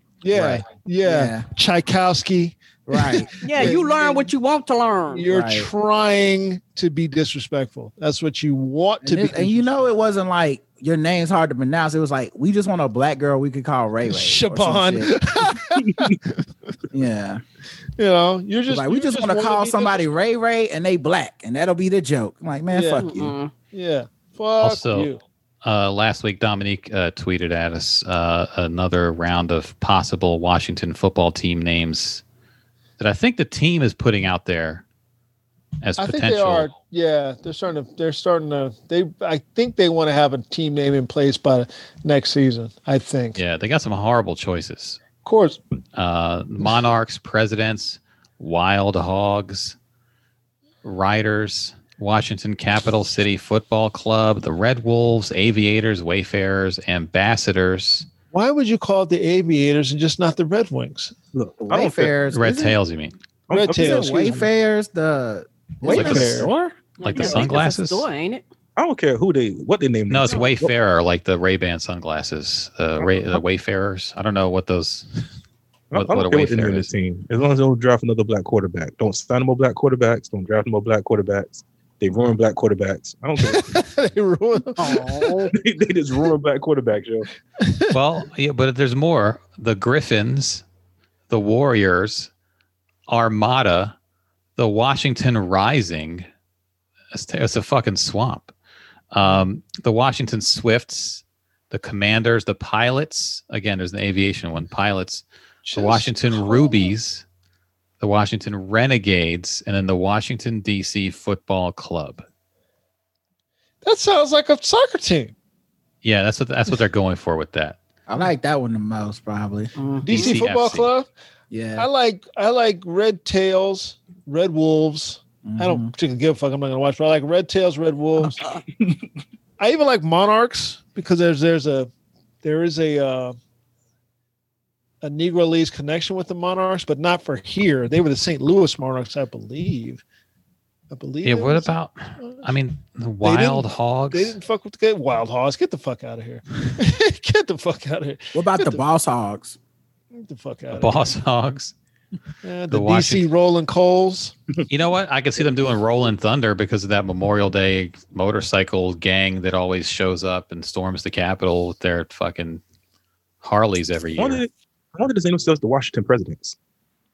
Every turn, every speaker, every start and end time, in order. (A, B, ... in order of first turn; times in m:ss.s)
0:00.2-0:04.3 A
0:00.3-0:01.4 B
0:02.9-0:03.8 B
0:03.4-0:05.2 C
0:05.1-0:09.9 A
0:05.3-0:05.7 B
0:09.0-0:15.2 B
0:14.1-0:16.4 A
0:16.9-0:17.4 B
0:18.0-0:20.0 A
0:18.7-0:23.3 B
0:22.7-0:23.1 A
0:23.0-0:23.5 C
0:23.7-0:25.2 A
0:24.6-0:25.1 D
0:25.6-0:32.2 D
0:33.0-0:34.8 D
0:35.8-0:36.7 D
0:36.0-0:43.4 A
0:43.4-0:45.0 D
0:45.2-0:45.6 A
0:46.0-0:49.8 D
0:50.8-0:58.1 D
0:58.3-1:01.2 A
1:01.3-1:02.2 E
1:01.6-1:02.8 B
1:02.3-1:03.1 D
1:03.5-1:04.5 E
1:03.5-1:04.5 A
1:03.6-1:06.8 B
1:05.8-1:06.5 A
1:05.9-1:06.5 E
1:07.0-1:08.1 D
1:07.0-1:08.4 C
1:08.8-1:10.7 E
1:10.1-1:15.1 D
1:13.0-1:13.4 E
1:15.9-1:23.7 E
1:15.9-1:16.9 D
1:23.4-1:25.4 A
1:24.8-1:25.5 C
1:25.5-1:27.3 E
1:27.6-1:27.9 A
1:27.9-1:30.6 D
1:31.3-1:32.3 D
1:33.1-1:34.0 D
1:34.6-1:36.2 D
1:37.1-1:38.5 D
1:39.1-1:47.2 D
1:45.8-1:46.9 A
1:48.0-1:52.2 D
1:53.8-1:55.3 A
1:56.0-1:57.8 D
1:58.1-1:59.7 B
1:59.8-2:00.4 C
2:00.0-2:01.1 A
2:00.1-2:00.9 D
2:01.5-2:01.9 B
2:01.8-2:08.4 A
2:05.4-2:05.9 B
2:09.6-2:11.9 A
2:12.4-2:13.4 A
2:15.0-2:20.0 A
2:20.9-2:22.4 A
2:21.2-2:24.4 D
2:23.2-2:28.8 A
2:28.3-2:29.6 B
2:30.1-2:31.1 A
2:30.7-2:31.7 D
2:32.4-2:34.4 A
2:32.7-2:33.3 D
2:34.7-2:42.6 D
2:43.4-2:44.4 D
2:44.2-2:46.6 E